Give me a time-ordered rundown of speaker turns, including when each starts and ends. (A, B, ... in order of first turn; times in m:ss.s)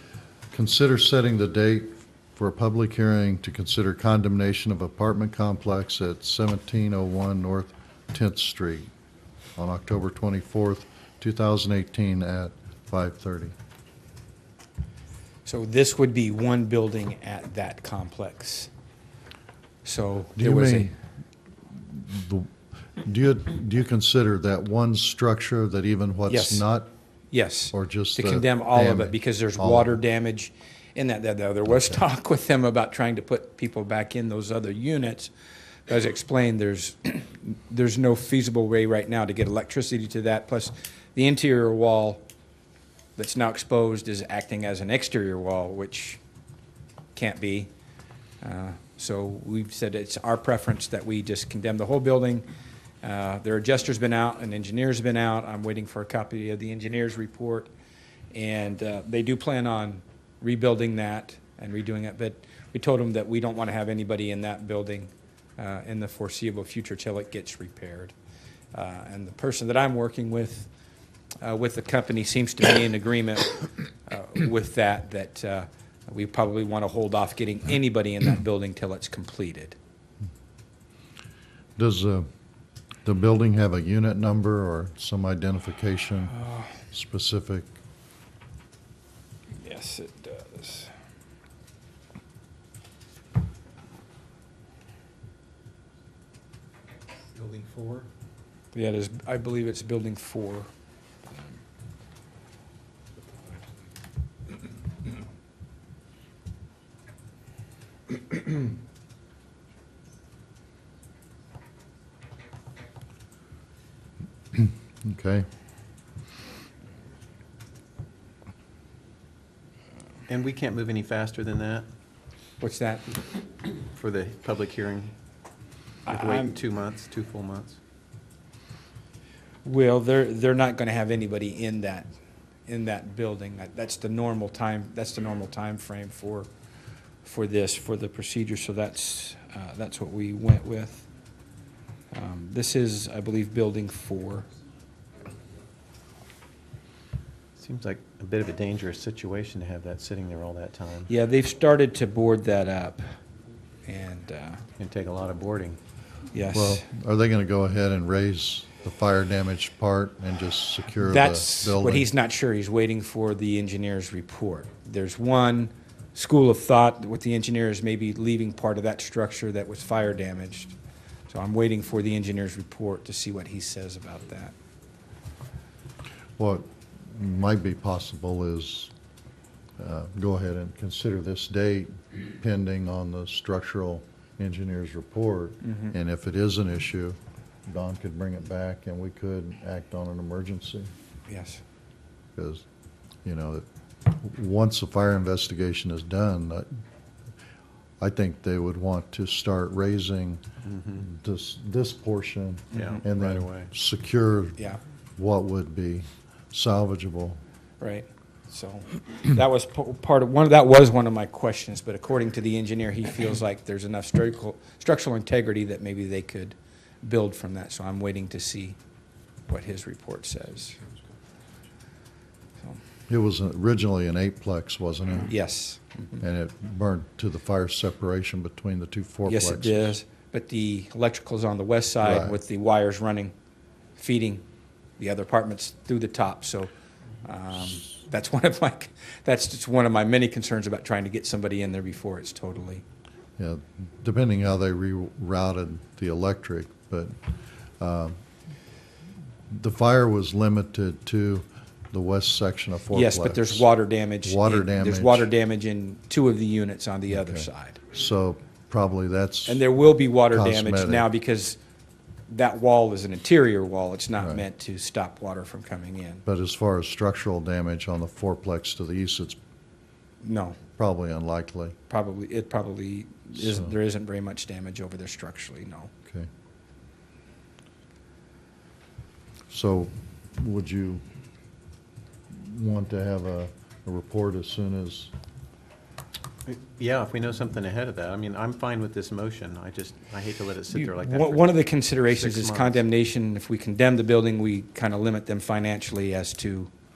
0:00.5-0:08.9 A
0:09.6-0:13.5 A
0:15.4-0:18.7 B
0:19.8-0:20.9 B
0:20.4-0:20.9 A
0:21.8-0:26.9 A
0:26.3-0:26.6 B
0:27.3-0:35.3 B
0:27.7-0:30.0 A
0:31.7-0:32.0 A
0:35.8-0:42.2 B
0:43.2-0:46.2 B
0:47.1-0:47.7 B
0:48.4-0:52.4 B
0:53.0-0:57.7 B
0:58.3-1:08.1 B
1:08.7-1:10.7 B
1:11.4-1:19.8 B
1:21.8-1:22.3 A
1:23.0-1:26.4 A
1:26.9-1:27.7 A
1:29.6-1:30.9 B
1:37.4-1:38.0 C
1:38.7-1:40.7 B
1:54.5-1:55.5 A
2:00.3-2:01.9 C
2:02.6-2:03.2 B
2:03.9-2:05.1 C
2:06.0-2:06.6 B
2:06.1-2:07.8 C
2:09.6-2:12.1 B
2:12.7-2:16.5 B
2:17.2-2:21.1 B
2:22.1-2:24.5 B
2:27.6-2:31.1 C
2:31.1-2:33.1 B
2:33.8-2:34.6 B
2:34.8-2:35.8 C
2:36.3-2:36.8 B
2:36.5-2:42.1 A
2:41.0-2:50.8 B
2:51.3-2:54.5 B
2:56.4-2:58.9 A
2:59.8-3:10.9 A
3:05.6-3:05.9 B
3:11.3-3:11.6 B
3:12.4-3:12.6 A
3:13.2-3:16.7 A
3:18.0-3:20.4 A
3:20.6-3:21.0 C
3:20.9-3:27.4 A
3:22.7-3:23.7 C
3:27.8-3:38.8 B
3:39.5-3:40.8 B
3:43.1-3:45.3 A
3:45.3-3:46.2 B
3:46.2-3:50.0 A
3:49.2-3:53.3 B
3:52.0-3:52.4 A
3:54.0-3:54.4 B
3:55.0-3:56.7 B
3:57.2-4:02.8 B
4:03.4-4:07.1 A
4:07.8-4:08.1 A
4:09.5-4:13.7 A
4:12.9-4:17.8 B
4:14.2-4:15.3 A
4:17.1-4:19.6 A
4:19.5-4:21.6 B
4:20.3-4:21.1 A
4:22.3-4:26.2 B
4:24.2-4:24.4 A
4:26.2-4:29.4 A
4:30.2-4:30.6 B
4:30.8-4:31.8 A
4:31.9-4:35.9 B
4:33.4-4:33.7 A
4:39.5-4:41.0 A
4:42.3-4:45.1 A
4:46.4-4:52.8 C
4:50.7-4:56.7 B